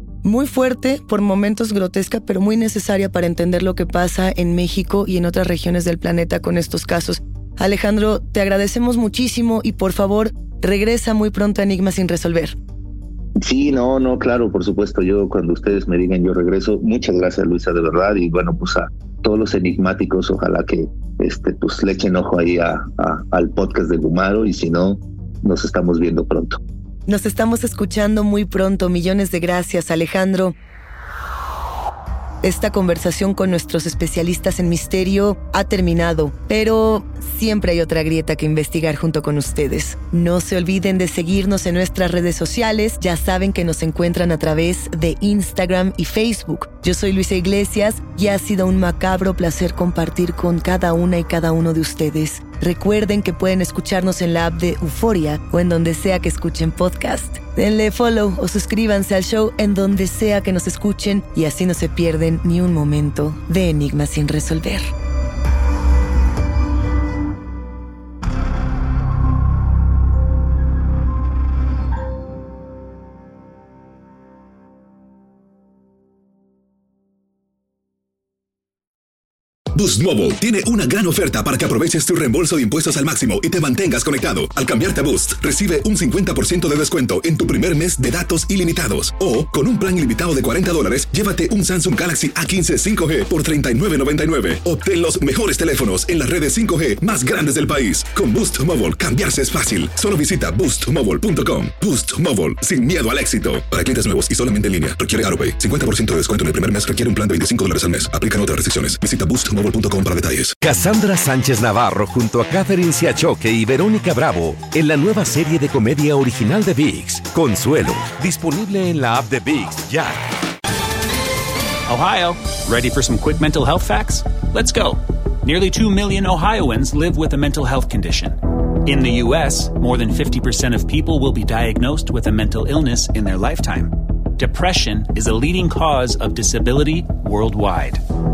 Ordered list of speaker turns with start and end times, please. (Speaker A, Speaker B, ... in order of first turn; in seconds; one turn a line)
Speaker A: 0.2-12.6
Speaker B: 13.4-26.6
Speaker A: 27.1-30.5
Speaker A: 32.4-64.9
Speaker C: 79.7-110.6
Speaker D: 110.6-120.2
Speaker E: 121.9-138.0